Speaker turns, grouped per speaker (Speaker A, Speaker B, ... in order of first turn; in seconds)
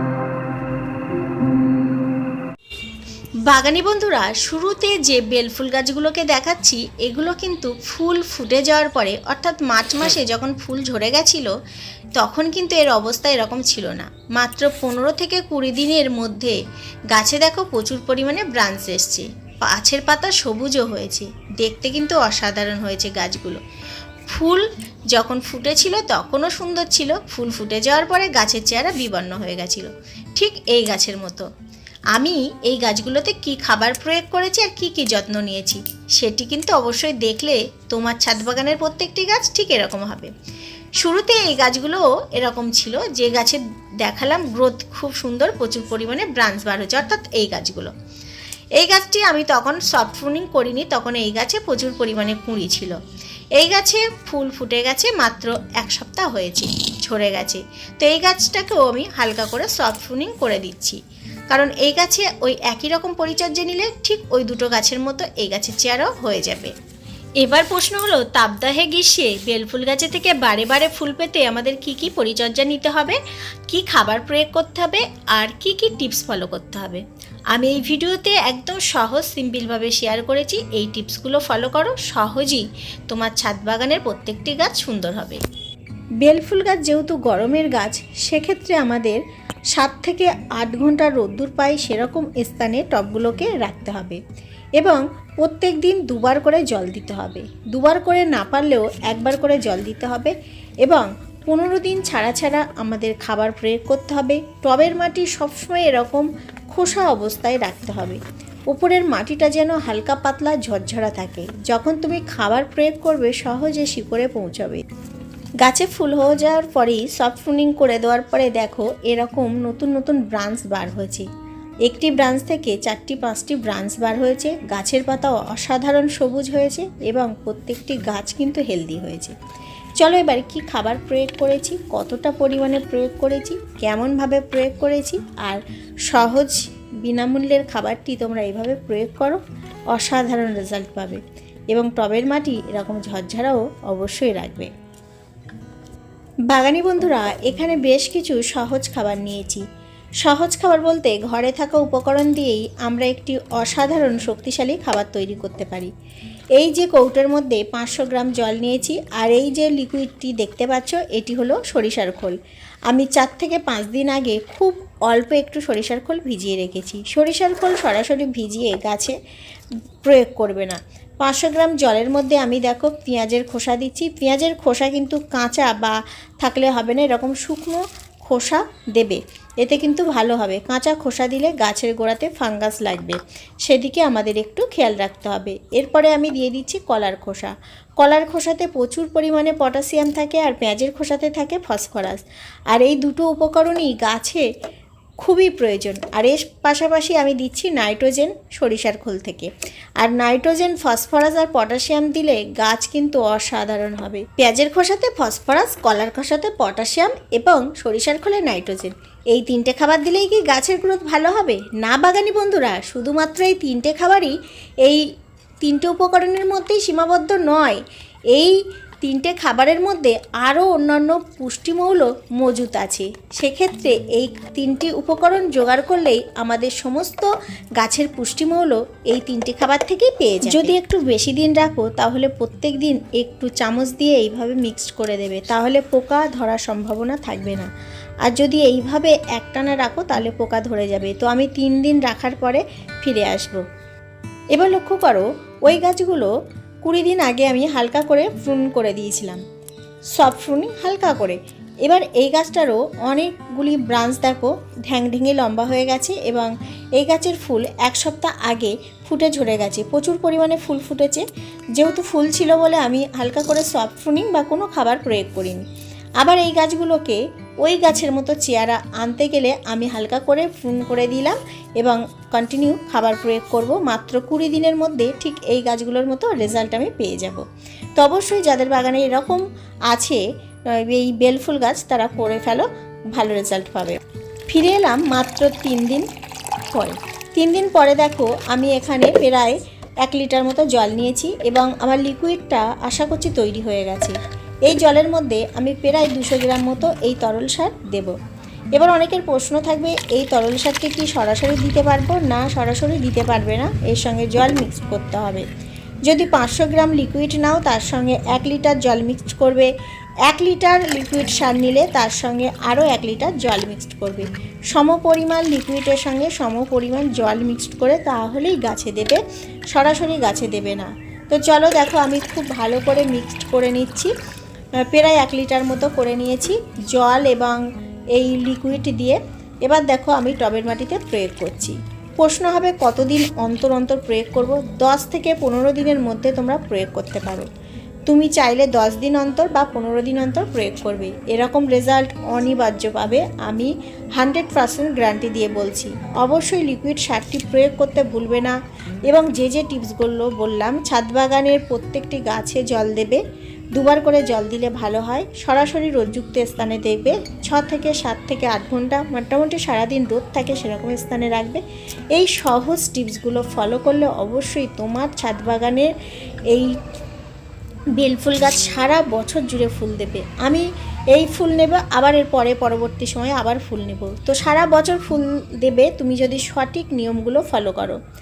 Speaker A: 3.5-11.5, 12.2-16.6, 17.1-23.6, 24.3-31.5, 32.1-40.3, 41.0-47.9, 48.8-53.0, 53.6-61.0, 61.5-66.7, 67.4-85.4, 86.2-89.2, 89.7-94.2, 94.8-100.3, 100.8-108.2, 108.7-114.8, 115.6-121.3, 121.8-129.3, 130.0-139.4, 139.9-141.2, 141.7-144.7, 146.5-149.6, 150.2-155.9, 156.6-162.4, 162.9-169.2, 170.0-194.4, 195.2-214.3, 215.6-217.8, 218.3-237.7, 238.2-243.6, 244.5-246.3, 246.8-249.4, 250.2-261.2, 261.8-265.6, 266.2-277.4, 278.0-286.1, 286.7-294.1, 294.7-298.1, 298.8-305.4, 306.1-309.7, 310.3-324.1, 324.9-327.6, 328.1-337.5, 338.1-348.6, 349.1-353.2, 353.7-361.6, 362.1-365.9, 368.0-378.0